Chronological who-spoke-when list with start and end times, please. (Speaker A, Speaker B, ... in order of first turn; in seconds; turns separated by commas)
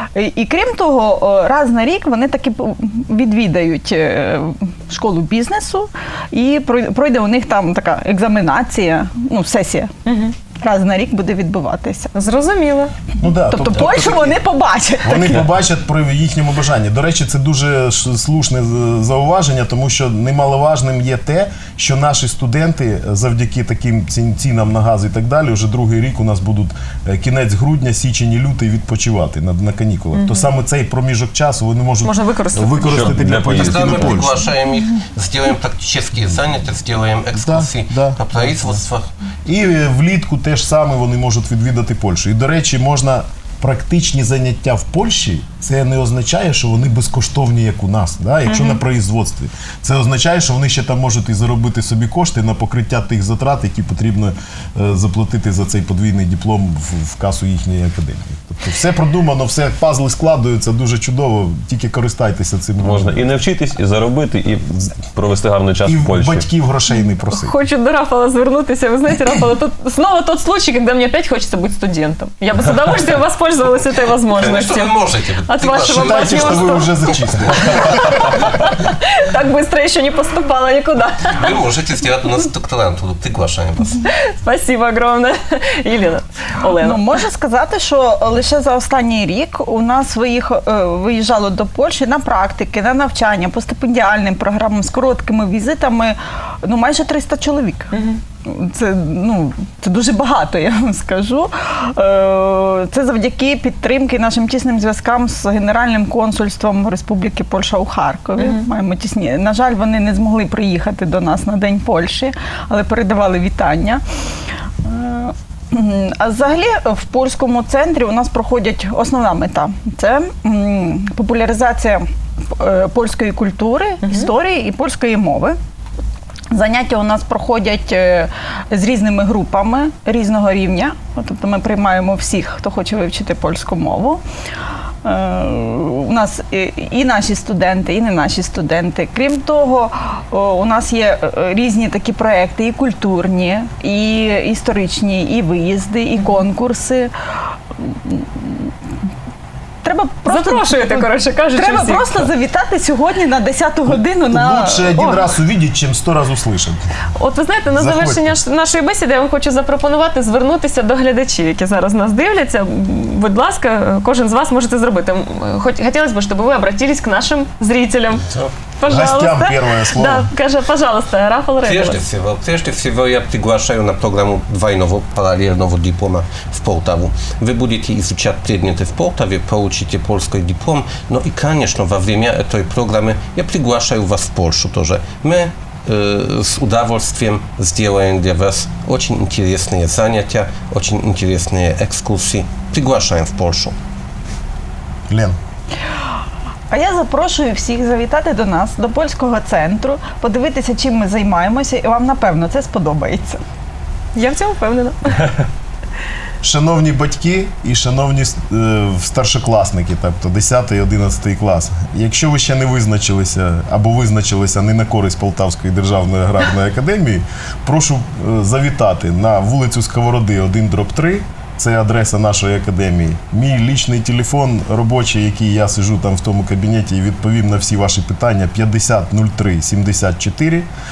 Speaker A: 0.1-9.9, Speaker B: 10.1-10.3, Speaker A: 10.6-12.1, Speaker B: 12.1-12.9, Speaker C: 13.2-14.4, Speaker A: 13.5-15.4, Speaker C: 15.0-34.4, Speaker B: 30.1-30.5, Speaker B: 32.0-33.0, Speaker D: 32.9-34.3, Speaker E: 33.5-39.0, Speaker C: 37.4-38.2, Speaker C: 39.5-63.2, Speaker B: 48.5-48.8, Speaker D: 62.8-66.5, Speaker C: 65.8-67.5, Speaker B: 66.9-75.0, Speaker E: 74.3-77.5, Speaker B: 75.5-76.9, Speaker C: 75.9-77.8, Speaker B: 77.5-81.5, Speaker E: 81.3-84.0, Speaker B: 84.0-87.2, Speaker A: 86.8-97.9, Speaker B: 97.9-98.2, Speaker A: 98.4-114.0, Speaker B: 108.4-108.6, Speaker A: 114.8-122.0, Speaker A: 122.5-125.5, Speaker B: 124.0-124.3, Speaker A: 126.5-134.2, Speaker A: 135.0-147.1, Speaker A: 147.8-148.7, Speaker A: 149.8-155.3, Speaker B: 150.2-152.2, Speaker C: 153.9-156.8, Speaker B: 157.2-168.2, Speaker C: 157.8-158.4, Speaker B: 168.8-172.0, Speaker C: 168.8-170.3, Speaker E: 171.6-193.8, Speaker C: 195.1-195.4, Speaker A: 196.7-203.4, Speaker B: 204.1-205.3, Speaker C: 206.4-230.7